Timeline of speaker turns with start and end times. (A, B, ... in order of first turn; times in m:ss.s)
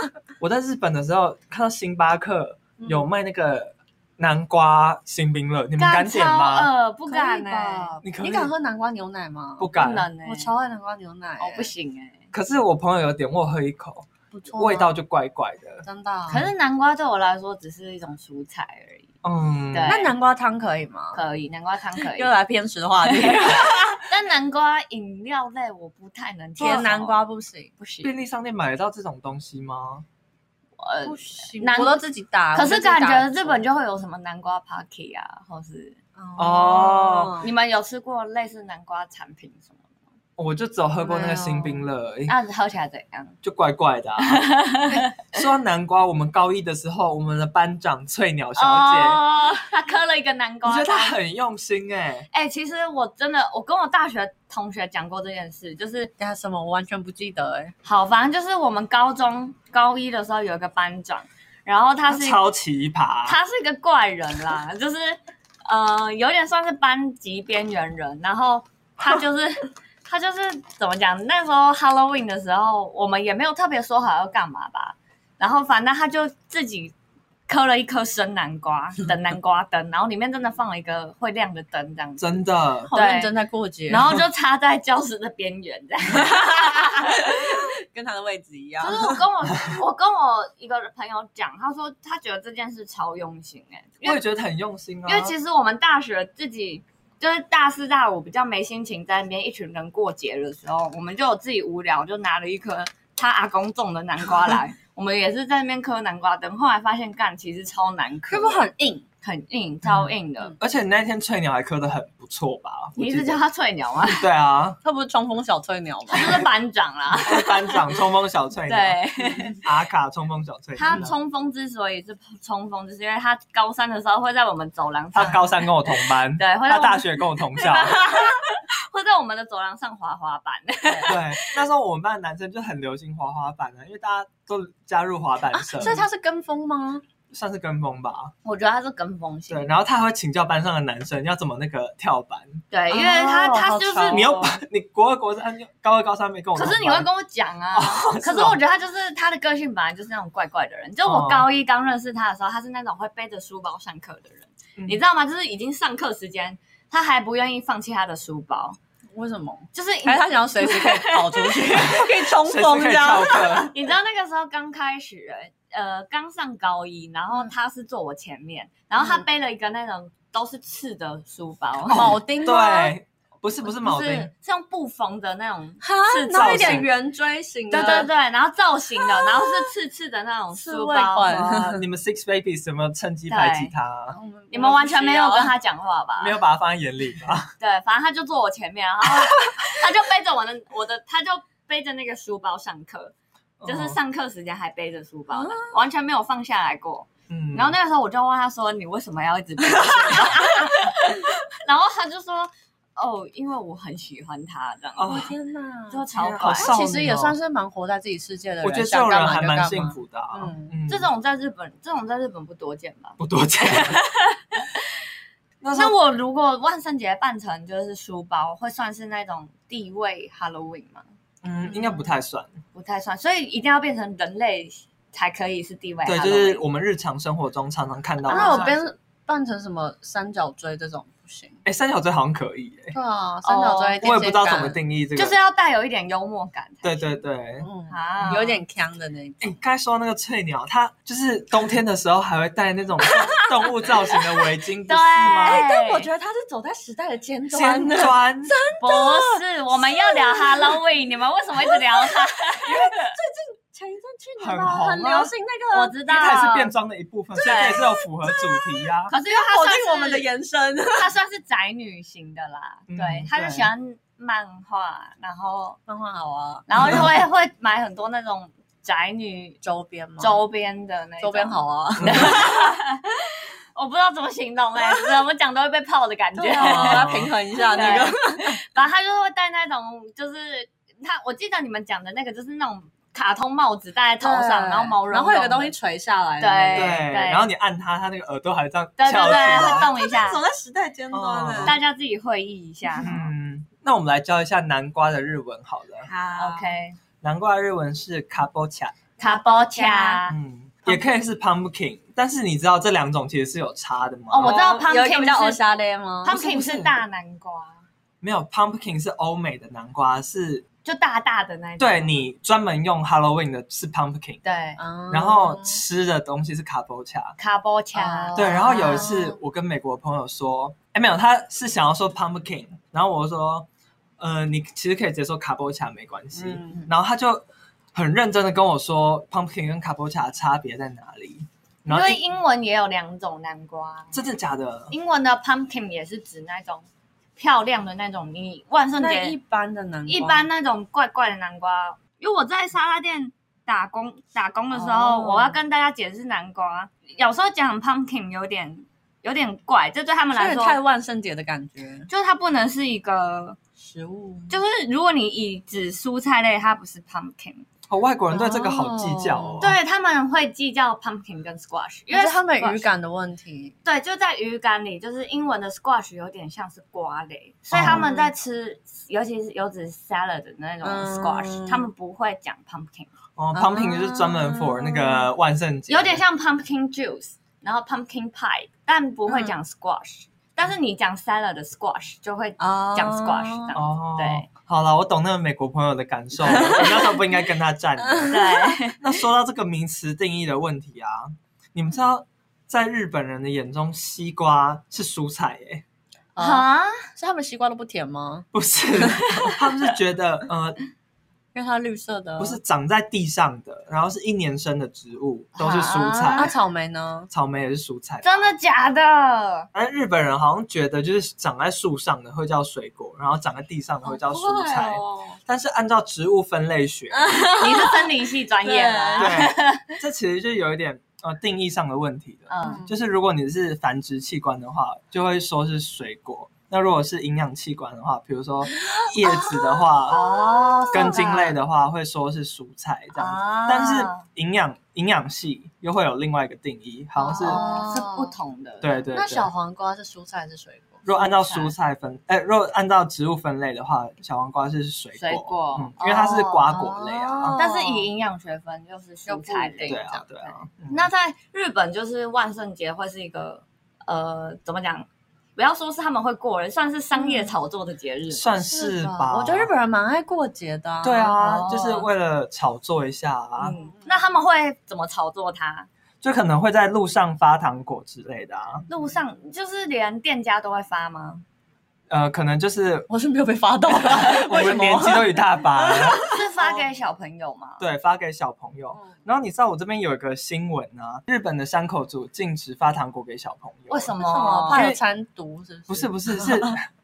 0:00.4-0:06.7 A
0:02.8-0:03.1 B
0:05.8-0:08.0 C
0:07.1-0:11.7 B
0:08.0-0:08.5 A
0:09.6-0:10.1 A
0:09.8-0:10.5 C
0:11.4-0:12.2 C
0:12.3-0:15.8 A
0:14.3-0:15.0 B
0:15.8-0:16.5 B
0:16.3-0:19.1 C
0:19.2-0:20.0 A
0:19.7-0:20.1 C
0:19.9-0:21.2 B
0:21.1-0:22.3 C
0:22.0-0:24.0 B
0:23.1-0:27.2 C
0:26.6-0:27.7 B
0:27.8-0:28.1 C
0:28.0-0:30.0 A
0:30.8-0:32.0 C
0:31.0-0:33.6 B
0:32.5-0:36.0 C
0:36.2-0:37.5 B
0:36.4-0:37.4 A
0:37.4-0:40.0 C
0:40.4-0:42.4 A
0:41.0-0:41.8 B
0:42.3-0:43.4 C
0:43.4-0:49.2 A
0:44.2-0:45.1 C
0:48.6-0:51.2 C
0:50.6-0:52.3 A
0:52.3-0:56.1 C
0:56.2-0:57.7 B
0:57.8-1:02.5 C
1:02.1-1:03.4 A
1:03.2-1:16.9 C
1:17.5-1:23.3 C
1:22.2-1:22.9 A
1:22.9-1:24.2 B
1:23.9-1:27.6 C
1:26.7-1:29.2 B
1:28.8-1:34.2 C
1:34.0-1:35.3 A
1:35.1-1:48.6 C
1:48.3-1:49.0 B
1:49.2-1:50.6 C
1:49.9-1:53.4 A
1:53.0-1:54.2 C
1:54.1-1:54.8 A
1:54.8-1:56.5 B
1:56.1-1:57.9 C
1:57.2-2:01.1 A
1:58.7-1:59.6 C
2:00.8-2:11.6 C
2:05.1-2:08.0 A
2:11.0-2:16.0 A
2:15.5-2:17.0 B
2:17.3-2:18.3 A
2:18.4-2:19.7 C
2:19.5-2:22.6 A
2:22.7-2:24.4 C
2:22.9-2:24.6 B
2:24.1-2:27.1 A
2:26.6-2:38.8 C
2:27.7-2:28.6 A
2:31.1-2:31.4 A
2:39.1-2:43.7 B
2:39.7-2:41.8 C
2:41.8-2:43.7 A
2:43.7-2:52.1 C
2:51.9-2:54.3 A
2:51.9-2:52.9 B
2:53.8-2:56.8 C
2:55.8-2:58.1 B
2:56.3-2:56.9 A
2:57.7-3:01.6 C
2:59.0-2:59.6 B
3:00.5-3:01.8 B
3:01.3-3:04.2 A
3:03.3-3:03.7 C
3:04.1-3:05.5 B
3:04.5-3:06.4 C
3:06.2-3:07.5 A
3:07.6-3:13.1 C
3:13.6-3:14.0 A
3:13.6-3:25.1 C
3:15.3-3:15.7 B
3:17.3-3:17.8 A
3:19.9-3:20.7 B
3:25.0-3:25.3 A
3:25.0-3:26.1 B
3:25.9-3:26.7 C
3:26.1-3:27.4 A
3:26.6-3:30.7 B
3:28.6-3:31.1 A
3:30.9-3:34.9 C
3:33.2-3:34.0 A
3:35.6-3:36.0 A
3:35.7-3:41.0 C
3:41.4-3:42.5 A
3:41.7-3:42.0 B
3:42.7-3:46.6 C
3:46.1-3:48.7 A
3:48.2-3:48.9 C
3:48.3-3:51.6 B
3:51.6-3:52.9 A
3:52.9-3:54.8 B
3:53.4-3:54.1 C
3:54.0-3:55.4 A
3:55.2-3:57.2 C
3:56.8-3:57.7 A
3:57.6-3:59.6 B
3:57.9-3:58.6 C
3:59.4-4:05.6 A
4:03.0-4:04.4 B
4:04.9-4:06.1 C
4:05.3-4:10.8 B
4:07.5-4:08.6 A
4:08.8-4:13.2 C
4:11.6-4:16.0 B
4:14.4-4:15.3 A
4:15.7-4:16.7 C
4:16.1-4:19.1 A
4:17.4-4:17.9 C
4:17.4-4:21.1 B
4:19.1-4:20.3 C
4:20.9-4:25.8 C
4:22.9-4:23.7 A
4:25.9-4:27.0 B
4:26.7-4:29.6 C
4:29.6-4:30.4 B
4:30.2-4:45.7 C
4:31.2-4:32.6 B
4:32.0-4:32.4 A
4:36.4-4:38.6 B
4:36.6-4:37.3 A
4:44.2-4:47.0 B
4:46.4-4:47.5 C
4:46.7-4:49.9 A
4:49.0-4:50.4 C
4:49.2-4:51.8 B
4:51.1-4:51.8 A
4:51.6-4:53.2 C
4:52.9-4:53.3 B
4:53.0-4:56.1 A
4:56.0-4:56.8 B
4:56.4-4:57.0 C
4:57.2-4:59.0 A
4:59.2-5:00.4 C
4:59.2-5:00.2 B
5:00.3-5:04.6 A
5:04.3-5:05.6 C
5:04.4-5:06.9 B
5:06.2-5:07.8 C
5:08.2-5:10.6 A
5:10.8-5:12.2 C
5:11.8-5:14.4 A
5:14.4-5:14.8 C
5:14.8-5:15.8 B
5:15.1-5:17.4 A
5:17.4-5:19.1 C
5:17.9-5:19.4 B
5:18.4-5:23.7 A
5:24.2-5:32.2 A
5:26.4-5:26.8 B
5:31.9-5:34.2 C
5:34.1-5:34.9 A
5:34.9-5:36.9 C
5:37.4-5:39.4 C
5:39.0-5:40.5 B
5:40.1-5:50.8 C
5:44.7-5:45.6 B
5:50.3-5:52.1 B
5:52.1-5:53.6 C
5:53.8-5:54.6 B
5:54.5-5:57.6 C
5:57.9-5:59.8 A
5:58.3-5:59.7 B
5:59.6-6:02.9 C
6:02.1-6:03.8 B
6:03.8-6:13.1 C
6:07.7-6:08.0 A
6:07.8-6:08.3 B
6:10.8-6:11.9 B
6:13.4-6:16.2 A
6:13.5-6:15.3 B
6:15.9-6:24.5 C
6:19.3-6:19.6 B
6:22.6-6:23.7 B
6:23.8-6:28.4 A
6:26.4-6:27.2 B
6:28.0-6:28.6 B
6:28.3-6:29.0 C
6:29.0-6:35.8 A
6:36.4-6:38.5 B
6:36.4-6:37.1 C
6:38.5-6:40.8 A
6:41.5-6:42.6 B
6:42.4-6:46.5 A
6:45.6-6:46.5 C
6:46.4-6:47.3 B
6:47.3-6:48.5 A
6:48.2-6:49.7 C
6:49.7-6:57.4 A
6:54.0-6:55.4 B
6:57.1-6:59.5 B
6:57.6-7:00.0 C
6:59.2-7:10.4 A
7:02.5-7:02.8 C
7:02.6-7:02.9 B
7:08.7-7:11.3 B
7:10.1-7:11.6 C
7:10.9-7:17.6 A
7:13.1-7:14.2 C
7:17.2-7:18.3 B
7:17.2-7:19.0 C
7:18.8-7:19.5 A
7:19.1-7:21.4 B
7:21.0-7:27.6 A
7:21.2-7:21.7 C
7:25.2-7:26.7 C
7:26.7-7:28.1 B
7:27.6-7:30.1 C
7:29.3-7:30.3 B
7:29.9-7:31.1 A
7:30.9-7:38.4 C
7:37.2-7:37.5 B
7:38.3-7:39.7 A
7:38.6-7:41.4 B
7:41.0-7:43.8 A
7:41.3-7:42.1 C
7:43.6-7:45.9 C
7:43.7-7:44.1 B
7:46.2-7:48.9 A
7:48.9-7:51.4 C
7:52.1-7:53.1 A
7:53.1-7:56.8 B
7:54.0-7:56.2 A
7:56.2-7:57.8 C
7:57.8-8:04.2 A
7:58.9-7:59.2 B
8:03.9-8:04.8 C
8:04.2-8:06.8 B
8:04.7-8:05.0 A
8:05.9-8:06.9 A